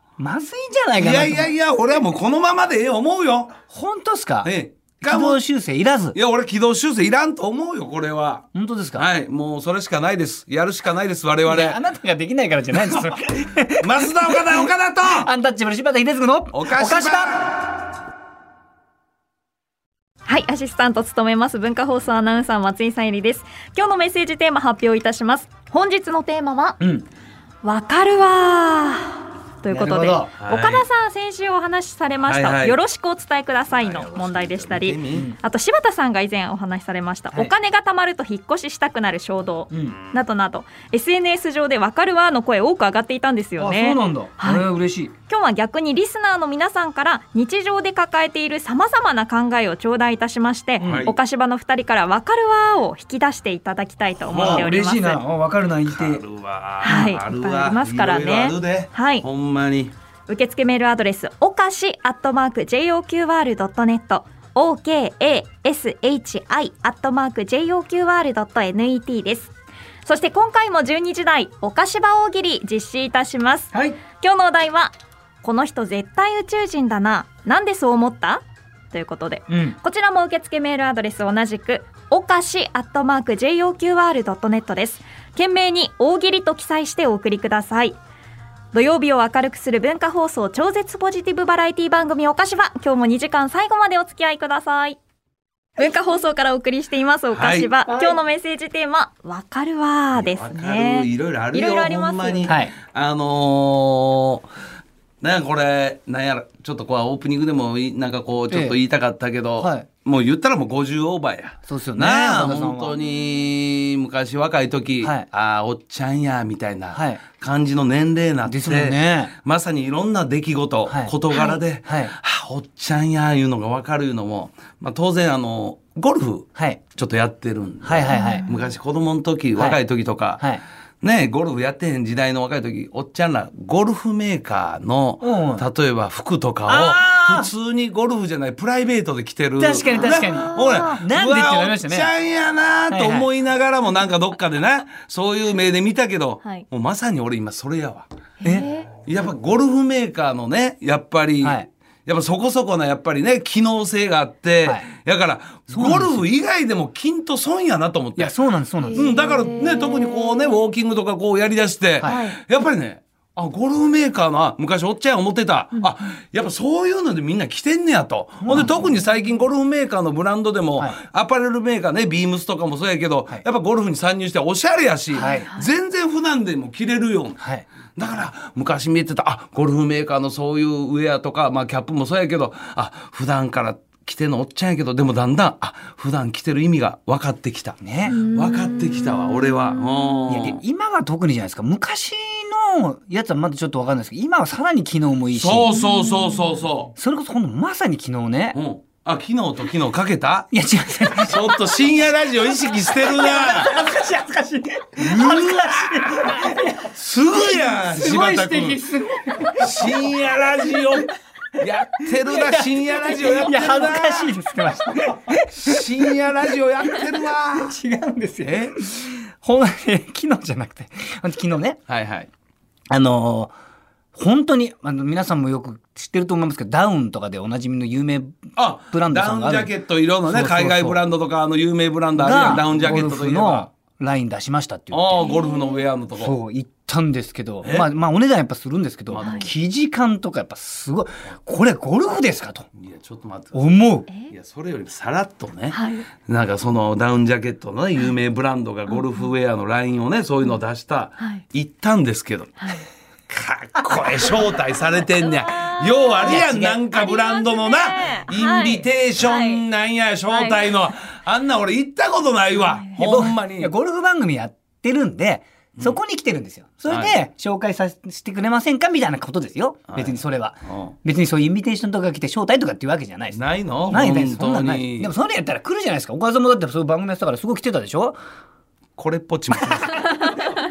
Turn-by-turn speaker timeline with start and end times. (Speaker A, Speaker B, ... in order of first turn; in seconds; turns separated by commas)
Speaker A: 0.2-1.5, Speaker B: 1.0-3.6, Speaker A: 3.7-6.2, Speaker B: 4.4-5.4, Speaker B: 6.1-11.8, Speaker A: 8.5-9.0, Speaker A: 11.4-17.4, Speaker B: 13.8-15.3, Speaker B: 16.5-17.6, Speaker C: 20.2-26.8, Speaker A: 26.8-27.1, Speaker C: 27.6-44.7, Speaker A: 29.7-30.3, Speaker B: 30.4-30.9, Speaker B: 32.2-32.8, Speaker B: 33.8-35.3, Speaker A: 35.1-35.4, Speaker A: 39.7-40.0, Speaker A: 43.6-45.1, Speaker C: 45.3-55.2, Speaker A: 50.8-51.1, Speaker B: 50.8-51.1, Speaker B: 54.3-54.7, Speaker A: 54.3-56.2, Speaker B: 55.9-59.9, Speaker C: 56.8-59.2, Speaker C: 60.3-69.5, Speaker C: 70.0-88.0, Speaker A: 73.7-74.0, Speaker A: 79.5-79.8, Speaker C: 88.7-95.0, Speaker C: 95.8-102.5, Speaker B: 97.3-97.7, Speaker B: 100.1-104.5, Speaker A: 102.5-102.7, Speaker B: 105.2-130.5, Speaker A: 108.5-108.8, Speaker A: 109.6-109.9, Speaker A: 111.7-113.0, Speaker A: 115.0-115.3, Speaker A: 116.9-117.2, Speaker A: 118.5-119.3, Speaker A: 120.9-121.1, Speaker C: 121.3-121.6, Speaker A: 121.9-122.1, Speaker A: 127.8-128.5, Speaker C: 128.1-128.6, Speaker A: 129.6-129.8, Speaker B: 131.0-148.1, Speaker A: 135.2-135.7, Speaker A: 136.7-137.5, Speaker A: 139.6-142.1, Speaker C: 140.0-141.0, Speaker A: 142.9-143.3, Speaker C: 148.4-148.9, Speaker B: 149.0-158.4, Speaker A: 151.4-151.7, Speaker A: 155.7-156.2, Speaker A: 158.2-159.4, Speaker C: 158.8-160.5, Speaker B: 158.9-177.4, Speaker A: 162.0-162.2, Speaker C: 162.0-162.4, Speaker A: 168.4-168.9, Speaker C: 175.2-175.7, Speaker A: 175.2-175.5, Speaker B: 177.9-190.6, Speaker A: 187.8-188.2, Speaker C: 188.1-189.7, Speaker A: 190.3-195.8, Speaker B: 195.3-196.9, Speaker C: 195.7-196.4, Speaker A: 196.9-198.6, Speaker B: 198.5-200.5, Speaker A: 200.5-201.9, Speaker B: 201.2-203.8, Speaker A: 202.7-210.2, Speaker B: 205.0-208.8, Speaker B: 209.6-214.4, Speaker A: 212.1-216.2, Speaker B: 215.5-217.8, Speaker A: 216.8-221.8, Speaker B: 218.4-218.8, Speaker B: 221.9-222.3, Speaker A: 222.9-223.5, Speaker A: 224.1-229.7, Speaker B: 228.6-233.7, Speaker A: 230.2-231.0, Speaker A: 232.2-235.3, Speaker B: 234.9-236.3, Speaker C: 235.2-235.8, Speaker A: 236.2-242.7, Speaker B: 239.1-239.5, Speaker C: 239.2-239.5, Speaker B: 242.8-243.8, Speaker A: 243.5-244.1, Speaker C: 244.1-244.3, Speaker B: 244.3-252.7, Speaker C: 245.7-246.1, Speaker C: 248.9-249.2, Speaker B: 253.3-263.7, Speaker C: 255.1-259.6, Speaker A: 256.2-256.8, Speaker C: 260.3-260.9, Speaker C: 262.6-263.0, Speaker A: 263.0-278.2, Speaker B: 266.9-267.2, Speaker B: 269.9-270.9, Speaker B: 273.3-275.1, Speaker B: 279.0-280.2, Speaker A: 279.6-279.9